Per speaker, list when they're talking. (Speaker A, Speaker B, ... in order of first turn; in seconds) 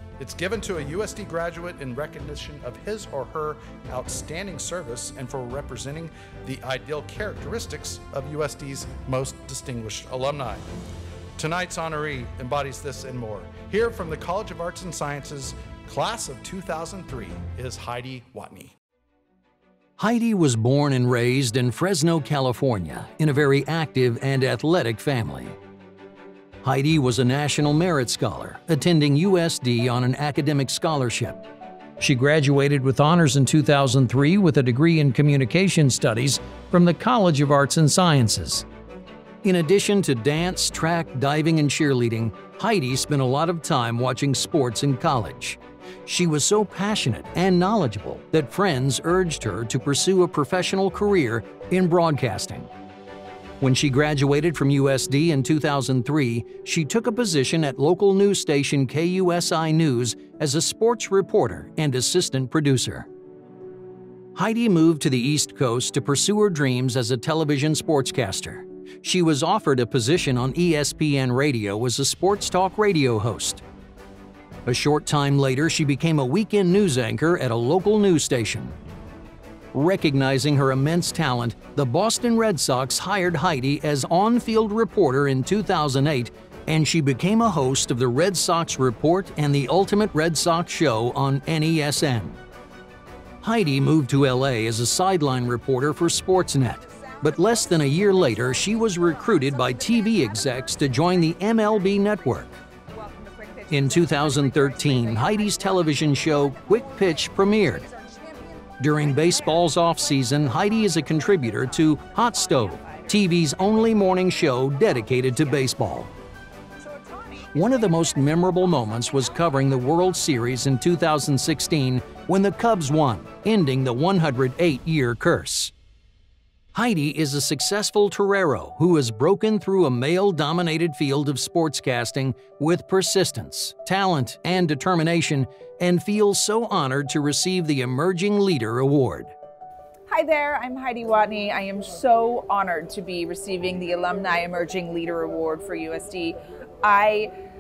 Speaker A: 0.2-10.7, 11.4-18.7
Speaker B: 20.0-25.6, 26.6-31.4, 32.0-38.6, 39.4-52.7, 53.6-63.1, 64.3-73.6, 74.7-78.7, 79.7-92.4, 93.4-102.6, 103.7-107.8, 108.8-116.1, 117.5-125.7, 126.7-139.3
Speaker C: 96.8-115.8, 116.8-120.5, 140.1-147.3